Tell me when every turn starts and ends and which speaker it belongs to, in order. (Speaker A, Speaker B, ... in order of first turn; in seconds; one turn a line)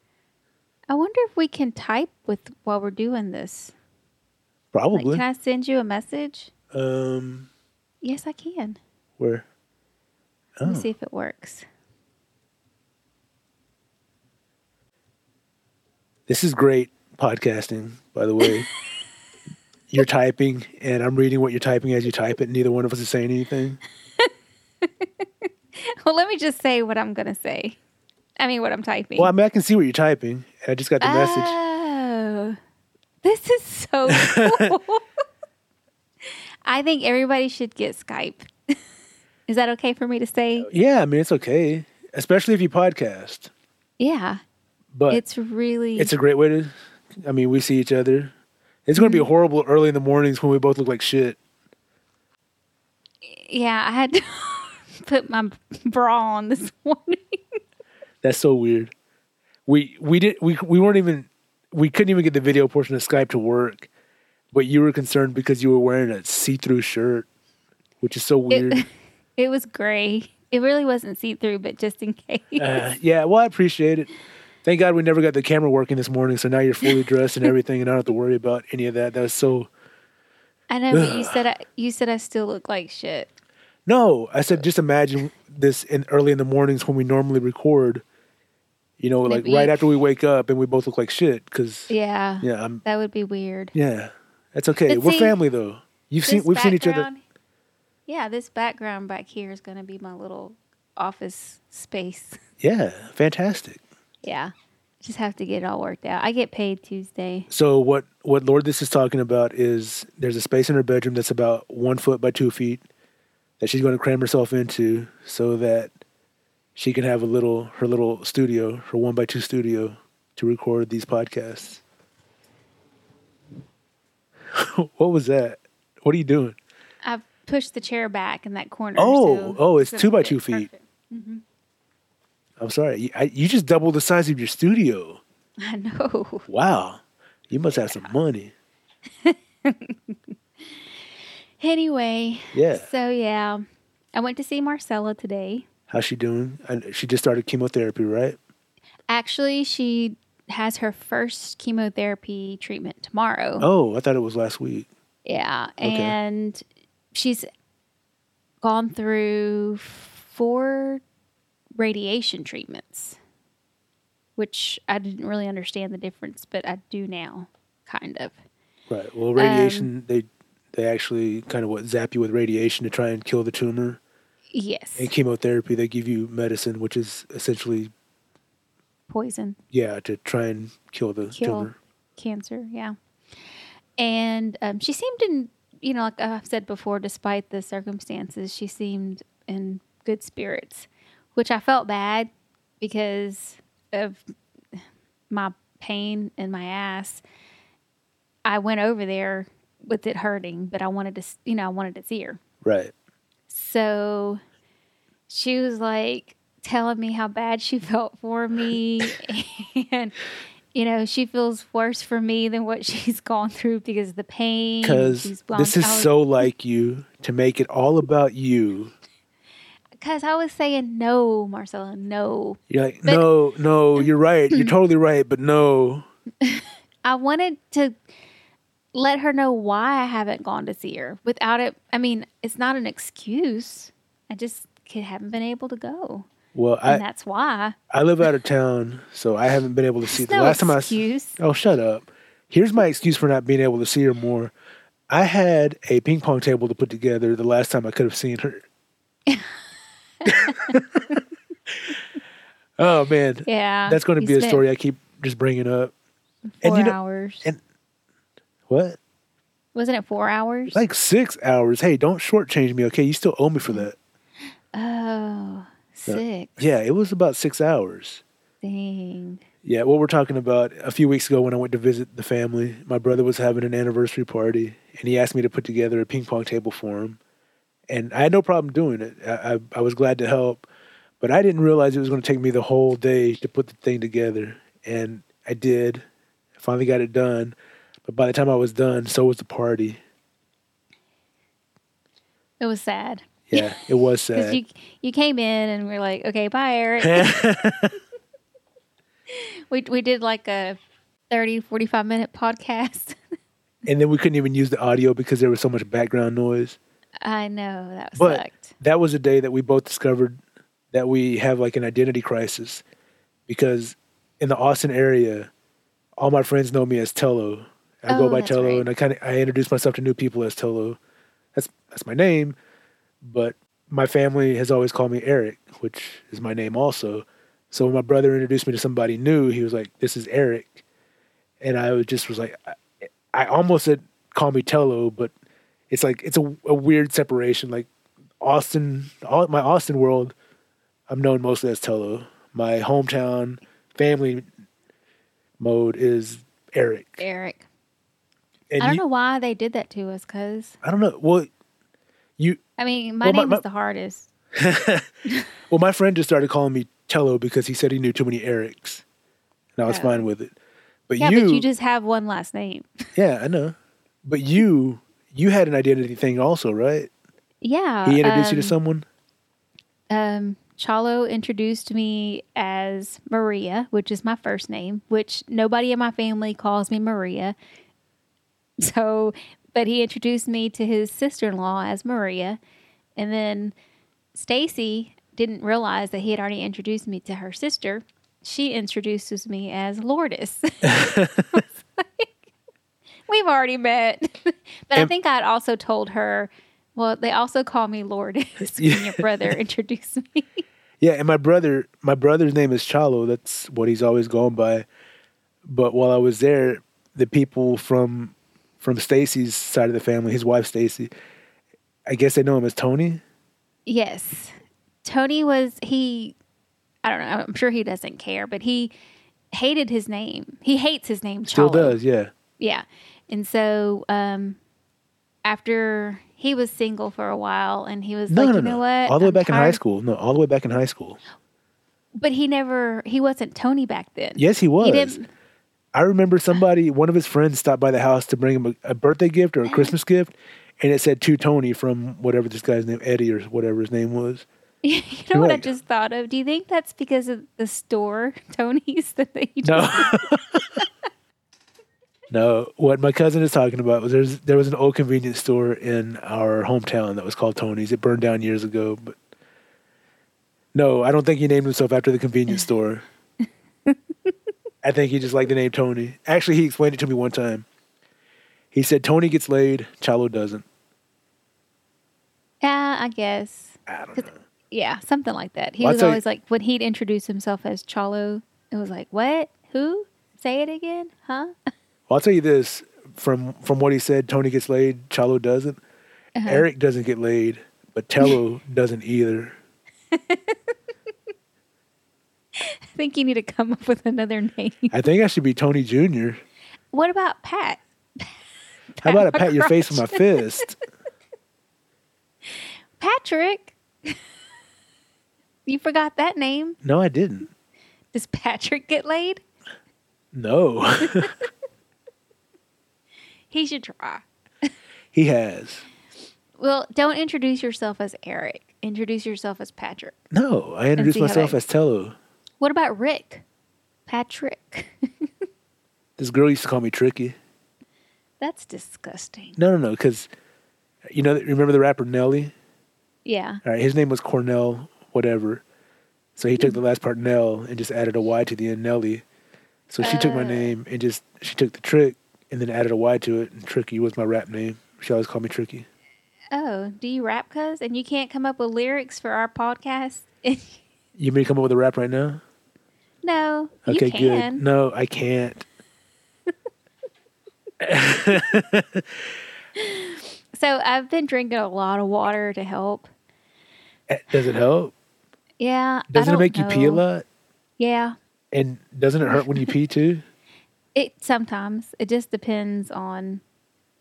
Speaker A: 0.9-3.7
Speaker B: 4.7-5.2
Speaker A: 4.9-6.5
Speaker B: 6.7-7.5
Speaker A: 8.0-8.8
Speaker B: 9.2-9.4
Speaker B: 10.6-10.9
Speaker A: 10.7-11.7
Speaker B: 16.3-18.7
Speaker A: 18.4-18.6
Speaker B: 19.9-23.8
Speaker A: 24.8-27.8
Speaker A: 28.4-29.3
Speaker B: 29.2-31.6
Speaker A: 31.0-32.6
Speaker A: 33.2-35.0
Speaker B: 34.1-34.7
Speaker A: 36.2-38.8
Speaker A: 39.5-40.7
Speaker B: 40.6-43.5
Speaker A: 44.0-44.4
Speaker B: 44.9-45.2
Speaker A: 45.1-46.1
Speaker B: 46.0-48.3
Speaker B: 48.9-51.4
Speaker A: 49.0-49.3
Speaker A: 53.2-57.6
Speaker B: 58.2-58.9
Speaker B: 59.7-63.9
Speaker B: 64.5-67.2
Speaker B: 68.0-68.8
Speaker A: 68.5-68.9
Speaker A: 69.4-72.8
Speaker B: 72.6-74.1
Speaker B: 74.7-79.7
Speaker A: 80.7-83.3
Speaker B: 80.9-81.4
Speaker B: 83.9-88.0
Speaker B: 89.0-92.8
Speaker A: 89.2-89.8
Speaker A: 91.9-93.7
Speaker B: 93.7-97.1
Speaker A: 94.9-95.4
Speaker A: 96.2-97.2
Speaker A: 98.1-102.4
Speaker B: 102.6-103.8
Speaker A: 104.2-107.5
Speaker B: 107.5-112.8
Speaker B: 113.6-115.9
Speaker B: 116.8-121.8
Speaker B: 124.5-126.6
Speaker A: 127.0-131.4
Speaker B: 129.0-130.7
Speaker B: 132.6-135.2
Speaker A: 135.6-136.5
Speaker B: 136.5-138.5
Speaker A: 137.7-138.1
Speaker A: 139.2-140.2
Speaker A: 141.6-143.6
Speaker B: 142.5-142.9
Speaker A: 144.1-145.7
Speaker B: 145.9-148.4
Speaker A: 149.1-153.7
Speaker B: 153.6-154.9
Speaker A: 155.2-157.5
Speaker B: 155.8-156.2
Speaker A: 158.6-161.0
Speaker A: 161.8-163.2
Speaker A: 164.4-168.4
Speaker B: 168.9-174.0
Speaker A: 169.4-169.9
Speaker A: 174.5-175.1
Speaker B: 175.0-177.9
Speaker A: 179.1-179.6
Speaker B: 179.7-181.8
Speaker A: 181.3-183.0
Speaker A: 184.0-192.3
Speaker A: 192.8-197.2
Speaker A: 198.4-202.4
Speaker B: 202.6-202.9
Speaker A: 203.5-204.4
Speaker A: 205.3-210.1
Speaker A: 210.7-216.1
Speaker B: 214.8-218.9
Speaker A: 220.0-223.2
Speaker B: 222.7-226.1
Speaker A: 224.0-224.7
Speaker A: 226.4-228.0
Speaker A: 228.9-236.3
Speaker B: 236.5-237.0
Speaker A: 236.9-237.8
Speaker B: 237.9-244.5
Speaker A: 240.1-241.4
Speaker B: 245.1-248.6
Speaker A: 249.3-249.6
Speaker A: 250.2-250.8
Speaker B: 250.2-251.0
Speaker B: 252.8-255.9
Speaker A: 253.5-254.6
Speaker A: 256.5-257.5
Speaker B: 256.6-257.6
Speaker B: 258.7-259.0
Speaker A: 259.8-260.8
Speaker B: 260.7-263.9
Speaker A: 264.7-266.6
Speaker B: 266.1-268.2
Speaker A: 268.6-269.4
Speaker B: 269.6-277.2
Speaker B: 277.9-280.7
Speaker B: 281.2-286.0
Speaker B: 286.6-290.0
Speaker A: 292.6-293.7
Speaker B: 293.5-294.6
Speaker A: 294.3-297.3
Speaker B: 297.0-298.0
Speaker A: 299.3-300.8
Speaker A: 301.3-303.2
Speaker B: 303.9-306.8
Speaker A: 307.2-308.7
Speaker B: 308.2-310.4
Speaker B: 310.9-312.8
Speaker B: 313.5-315.5
Speaker B: 316.2-321.0
Speaker A: 318.1-318.9
Speaker B: 321.5-322.6
Speaker B: 323.2-330.8
Speaker B: 331.6-332.8
Speaker B: 333.3-335.3
Speaker B: 335.9-337.9
Speaker B: 338.4-340.4
Speaker B: 341.1-344.5
Speaker B: 345.6-347.2
Speaker A: 347.2-347.7
Speaker B: 348.7-349.0
Speaker A: 348.8-350.8
Speaker B: 350.8-351.5
Speaker A: 352.8-354.3
Speaker B: 353.2-353.6
Speaker B: 354.5-355.1
Speaker B: 355.7-359.0
Speaker B: 359.8-360.5
Speaker A: 359.9-360.2
Speaker B: 361.1-361.7
Speaker A: 361.2-363.0
Speaker B: 363.1-367.1
Speaker A: 367.6-368.8
Speaker B: 368.1-369.1
Speaker A: 370.1-377.6
Speaker A: 378.8-382.6
Speaker A: 383.2-383.7
Speaker A: 384.3-392.3
Speaker B: 390.8-391.6
Speaker A: 393.3-400.6
Speaker B: 398.8-399.5
Speaker B: 401.0-404.9
Speaker B: 405.7-411.1
Speaker B: 412.1-413.2
Speaker A: 413.9-416.4
Speaker A: 417.0-418.9
Speaker A: 419.5-422.0
Speaker B: 421.5-422.3
Speaker A: 422.6-424.6
Speaker A: 425.4-429.8
Speaker B: 428.3-431.2
Speaker A: 432.2-435.3
Speaker B: 434.4-435.2
Speaker B: 435.9-444.5
Speaker A: 439.6-439.9
Speaker A: 444.8-450.2
Speaker B: 445.3-445.7
Speaker B: 449.6-450.7
Speaker B: 452.3-459.2
Speaker B: 460.7-463.0
Speaker B: 464.8-467.6
Speaker B: 468.7-470.6
Speaker A: 472.6-481.5
Speaker B: 473.9-474.4
Speaker B: 475.8-476.2
Speaker B: 482.1-485.8
Speaker A: 486.4-486.7
Speaker B: 486.4-489.6
Speaker A: 490.1-490.6
Speaker A: 492.5-494.9
Speaker B: 494.9-496.4
Speaker A: 496.9-498.4
Speaker A: 498.9-500.5
Speaker B: 499.0-500.8
Speaker A: 503.0-504.2
Speaker A: 505.7-506.8
Speaker B: 506.8-507.5
Speaker A: 508.1-509.4
Speaker B: 510.3-511.3
Speaker A: 513.5-514.7
Speaker B: 515.1-515.9
Speaker A: 516.6-520.2
Speaker B: 520.3-522.1
Speaker A: 521.0-521.6
Speaker A: 522.6-523.4
Speaker A: 524.1-525.3
Speaker B: 526.2-527.4
Speaker A: 528.4-529.6
Speaker B: 529.6-530.3
Speaker B: 531.1-532.5
Speaker A: 533.2-533.6
Speaker B: 533.6-535.6
Speaker B: 536.4-539.2
Speaker B: 539.9-545.9
Speaker A: 540.0-540.8
Speaker A: 546.5-550.8
Speaker B: 551.2-552.4
Speaker A: 553.2-554.6
Speaker B: 553.9-555.6
Speaker B: 557.8-559.1
Speaker A: 559.8-563.1
Speaker B: 564.1-564.9
Speaker A: 565.6-567.0
Speaker B: 566.1-567.2
Speaker A: 567.8-568.2
Speaker B: 568.5-570.2
Speaker A: 569.3-569.7
Speaker A: 571.0-573.4